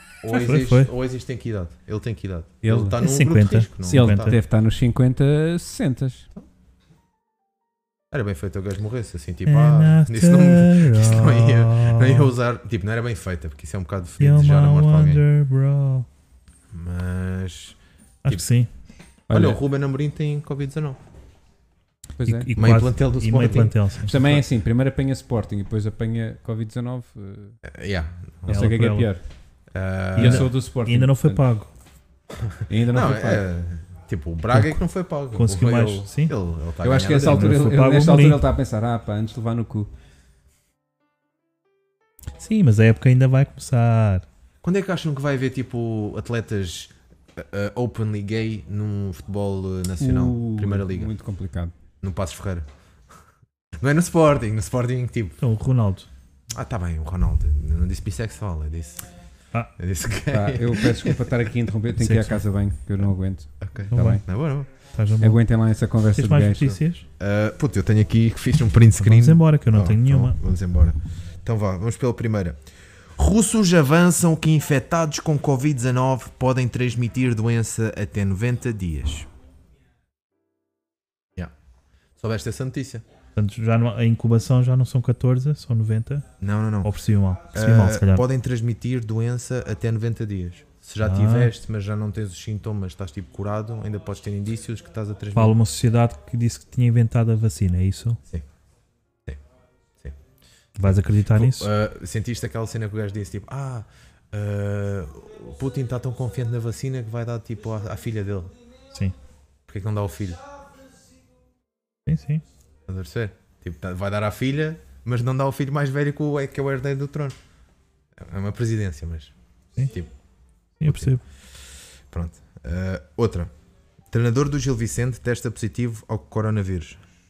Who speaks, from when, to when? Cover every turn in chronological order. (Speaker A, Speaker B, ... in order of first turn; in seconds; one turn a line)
Speaker A: 0.2-4.4
Speaker B: 0.3-0.9
Speaker C: 2.6-3.0
Speaker B: 3.0-4.4
Speaker C: 3.9-6.3
Speaker A: 8.1-15.2
Speaker B: 9.5-12.3
Speaker B: 14.2-16.1
Speaker A: 16.7-18.4
Speaker B: 18.2-18.7
Speaker C: 19.3-19.6
Speaker A: 19.3-21.0
Speaker C: 22.2-27.6
Speaker B: 22.2-24.1
Speaker A: 22.6-24.4
Speaker A: 27.6-28.6
Speaker B: 28.5-29.1
Speaker C: 28.5-29.2
Speaker A: 29.7-30.5
Speaker C: 30.1-31.4
Speaker B: 30.2-31.7
Speaker C: 32.7-33.5
Speaker A: 32.9-37.5
Speaker B: 34.5-34.8
Speaker B: 35.3-36.3
Speaker C: 36.8-39.9
Speaker B: 37.3-38.4
Speaker B: 42.4-44.2
Speaker A: 44.6-51.1
Speaker C: 50.0-51.7
Speaker A: 52.0-52.7
Speaker A: 53.8-55.4
Speaker B: 55.4-56.1
Speaker A: 56.5-59.0
Speaker A: 59.8-61.2
Speaker C: 60.3-64.2
Speaker B: 62.0-62.4
Speaker A: 63.6-64.7
Speaker B: 63.9-64.2
Speaker B: 64.9-65.4
Speaker C: 65.2-66.8
Speaker B: 66.2-67.0
Speaker A: 67.2-72.6
Speaker B: 69.0-70.4
Speaker A: 73.2-79.3
Speaker A: 82.2-83.0
Speaker B: 83.4-86.2
Speaker A: 86.4-86.9
Speaker B: 86.8-88.2
Speaker A: 87.5-95.5
Speaker B: 91.0-91.5
Speaker B: 95.3-98.2
Speaker A: 100.8-108.5
Speaker B: 100.8-101.7
Speaker A: 109.7-110.4
Speaker B: 112.1-112.4
Speaker A: 112.9-117.4
Speaker A: 118.2-119.3
Speaker B: 120.8-121.2
Speaker A: 120.8-121.2
Speaker A: 122.1-123.5
Speaker A: 124.1-127.0